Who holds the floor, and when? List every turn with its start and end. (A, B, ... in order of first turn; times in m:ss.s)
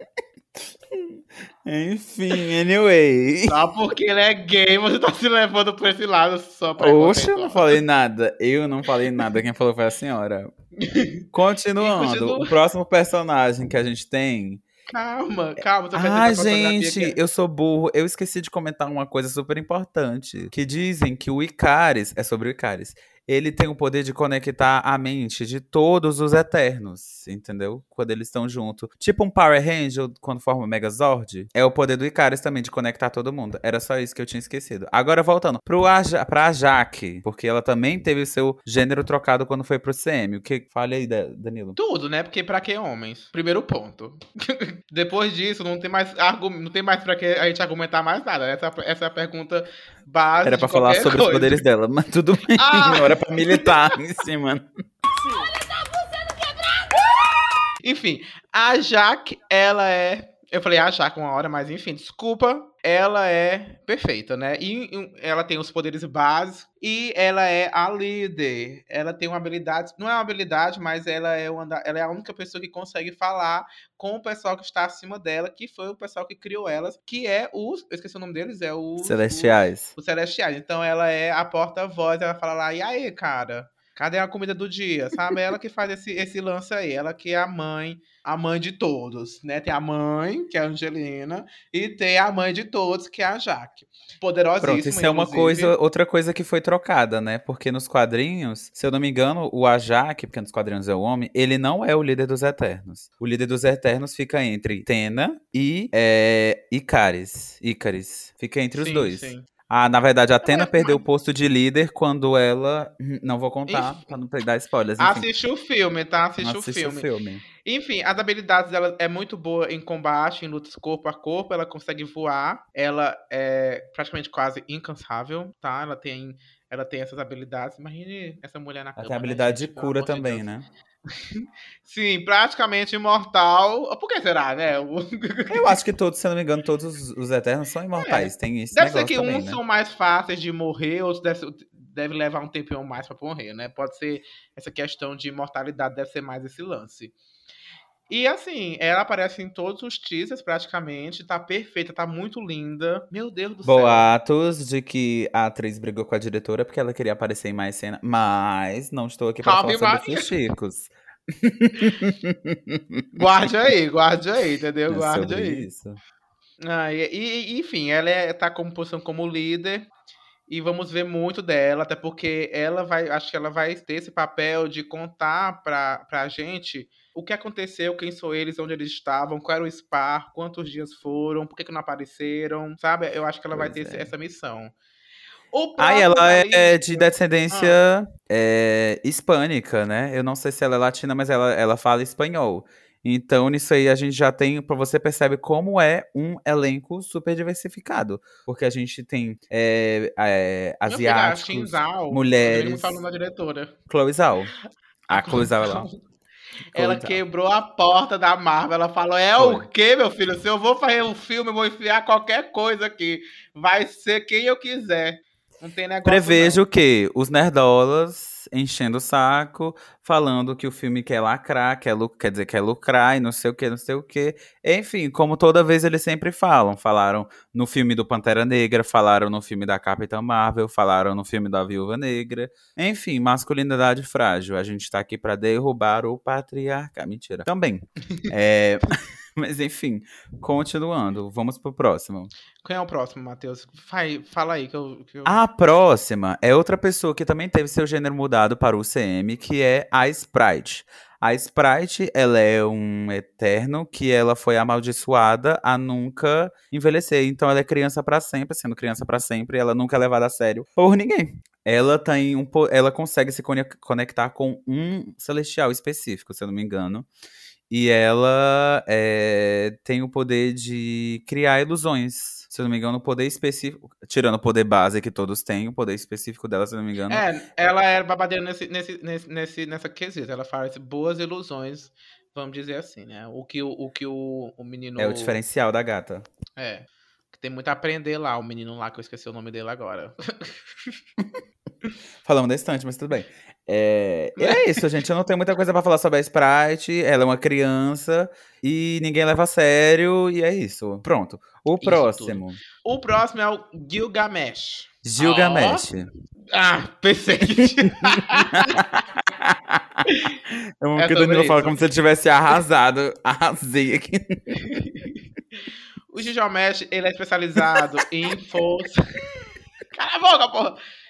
0:00.6-0:03.6 A
0:03.5-0:07.7 B
0:06.8-0:10.5 A
0:10.8-0:11.2 B
0:11.3-0:14.6 A
0:11.8-0:12.6 B
0:14.9-0:17.2 B
0:15.9-0:41.8 A
0:41.8-0:51.6 B
0:50.4-0:54.7 A
0:52.6-0:53.9 B
0:57.8-1:35.7 B
1:19.0-1:19.9 A
1:34.6-1:55.3 A
1:48.8-1:49.4 B
1:50.4-1:51.0 B
1:53.7-1:54.0 B
1:55.0-1:57.1 B
1:56.4-1:57.4 A
1:57.6-2:10.5 B
2:09.0-2:10.6 A
2:11.1-2:15.8 B
2:15.5-2:19.6 A
2:18.0-2:27.1 B
2:28.1-2:34.1 B
2:33.6-2:43.5 A
2:39.4-2:40.4 B
2:43.2-2:45.7 B
2:44.9-2:46.0 A
2:46.6-2:49.9 B
2:50.5-3:04.7 B
3:03.5-3:04.1 A
3:05.5-3:07.8 B
3:05.8-3:23.0 A
3:20.9-3:23.7 B
3:23.9-3:24.5 A
3:25.1-3:25.9 A
3:25.1-3:26.0 B
3:26.7-3:27.2 A
3:26.7-3:36.6 B
3:29.4-3:29.6 A
3:36.0-4:02.3 A
4:02.6-4:05.4 B
4:05.2-4:27.1 A
4:27.7-4:37.2 A
4:37.1-4:45.4 B
4:45.0-4:46.3 A
4:46.6-4:50.6 B
4:52.2-5:02.6 A
4:54.4-4:54.8 B
5:01.8-5:05.9 B
5:05.0-5:06.1 A
5:06.5-5:08.8 B
5:08.5-5:14.6 A
5:10.1-5:10.3 B
5:11.0-5:11.8 B
5:14.5-5:15.2 B
5:16.1-5:19.2 B
5:19.9-5:20.8 B